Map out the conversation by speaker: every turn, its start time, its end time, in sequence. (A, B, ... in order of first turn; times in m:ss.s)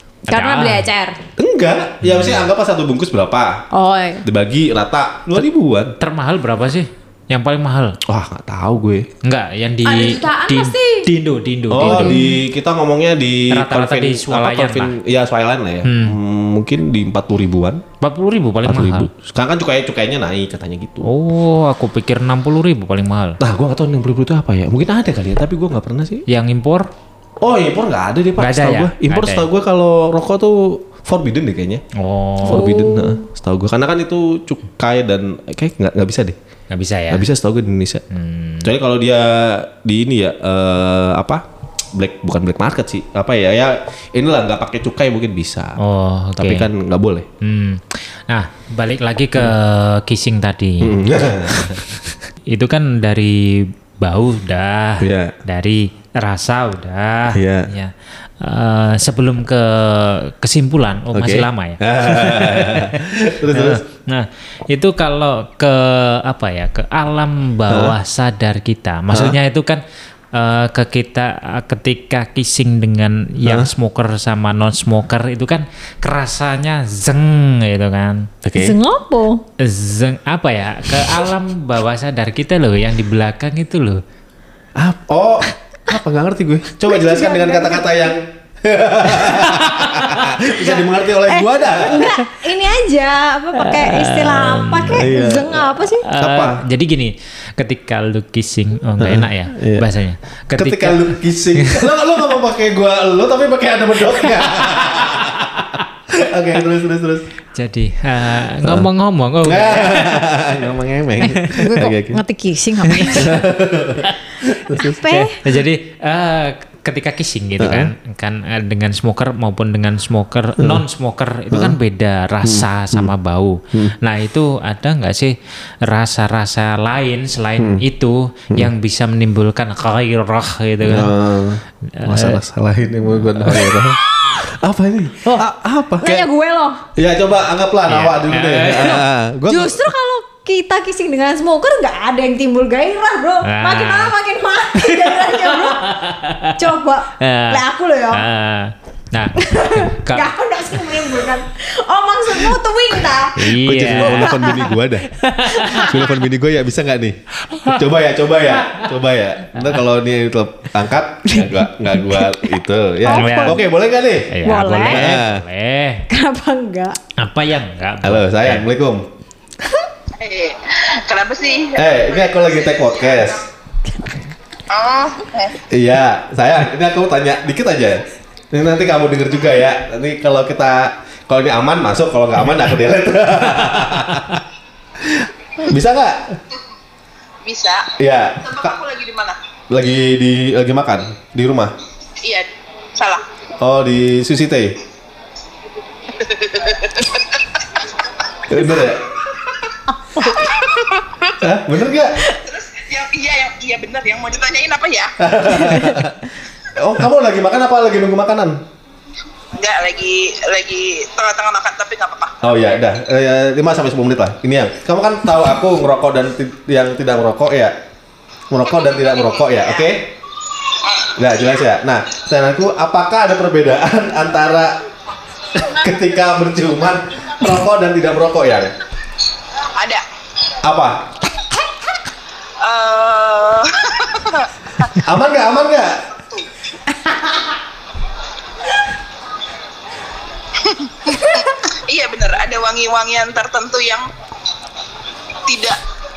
0:00.3-0:00.9 A
0:00.3-0:01.2 B
0:01.4-0:03.7 C
0:02.0-0:02.4 A
0:03.7-0:04.2 B
0:04.2-0:06.0 C
0:06.0-0:08.0 A
0:08.1-0:09.1 C
0:09.2-0:12.3 A
0:09.8-0:11.1 B
0:11.7-0:17.8 C
0:11.8-0:12.3 B
0:13.5-0:15.0 A
0:15.8-0:16.2 A
0:18.0-0:19.1 A
0:18.6-0:21.1 C
0:21.0-0:23.4 A
0:23.4-0:26.2 C
0:26.3-0:26.9 A
0:27.4-0:31.8 C
0:28.4-0:29.5 A
0:32.0-0:32.7 A
0:32.4-0:33.2 B
0:32.4-0:36.4 C
0:36.7-0:37.2 A
0:37.1-0:38.0 C
0:38.1-0:38.7 A
0:38.6-0:41.4 C
0:42.0-0:45.8 C
0:45.8-0:46.7 A
0:46.4-0:47.3 C
0:47.4-0:51.8 A
0:50.8-0:51.8 C
0:52.5-1:09.8 A
0:55.0-0:55.4 C
0:57.3-0:57.7 C
1:01.1-1:03.8 C
1:07.7-1:08.0 C
1:09.1-1:09.4 C
1:10.3-1:18.3 A
1:13.4-1:13.7 C
1:18.4-1:18.8 C
1:18.6-1:19.4 B
1:19.6-1:24.0 A
1:24.8-1:32.2 C
1:26.9-1:28.0 B
1:29.2-1:30.2 A
1:30.6-1:36.0 B
1:33.6-1:35.1 A
1:34.9-1:36.6 C
1:36.0-1:41.9 A
1:39.0-1:39.9 C
1:40.6-1:47.3 C
1:47.5-1:50.3 A
1:48.6-1:48.9 C
1:49.4-1:52.2 C
1:51.2-1:53.5 B
1:52.9-1:55.0 C
1:54.8-1:55.4 B
1:55.0-2:11.2 A
1:57.6-1:57.9 C
2:00.6-2:00.8 C
2:01.5-2:01.8 C
2:02.4-2:03.1 C
2:07.6-2:07.8 C
2:10.8-2:16.3 C
2:12.0-2:12.4 A
2:13.3-2:13.7 A
2:16.0-2:16.8 B
2:17.0-2:19.8 C
2:17.9-2:19.0 A
2:19.5-2:25.9 B
2:23.4-2:24.1 A
2:24.8-2:30.3 A
2:26.6-2:28.2 B
2:29.4-2:34.7 B
2:33.4-2:34.6 A
2:33.6-2:45.4 C
2:35.1-2:35.9 A
2:35.5-2:36.1 B
2:37.5-2:37.8 A
2:41.3-2:43.7 B
2:43.1-2:43.6 A
2:44.3-2:46.1 A
2:44.4-2:45.1 B
2:46.1-2:47.0 B
2:47.2-2:48.7 A
2:48.0-2:49.1 C
2:50.2-2:53.4 D
2:51.8-2:53.5 C
2:54.7-2:55.6 D
2:55.7-3:04.4 C
3:05.0-3:06.4 C
3:07.4-3:09.4 D
3:08.0-3:08.7 C
3:09.7-3:11.8 C
3:12.2-3:13.2 D
3:13.6-3:14.8 C
3:16.1-3:17.8 D
3:18.5-3:19.2 C
3:20.2-3:20.4 B
3:20.2-3:21.4 D
3:21.4-3:22.2 C
3:22.3-3:25.2 D
3:25.2-3:28.6 C
3:29.6-3:32.8 D
3:32.4-3:37.8 C
3:38.5-3:40.1 C
3:38.6-3:39.9 D
3:40.8-3:41.2 D
3:41.2-3:44.8 C
3:45.5-3:48.7 C
3:49.8-3:50.0 D
3:50.6-3:51.1 C
3:52.6-3:55.0 D
3:55.0-3:56.1 C
3:57.1-3:57.3 B
4:00.6-4:04.1 D
4:05.5-4:05.8 D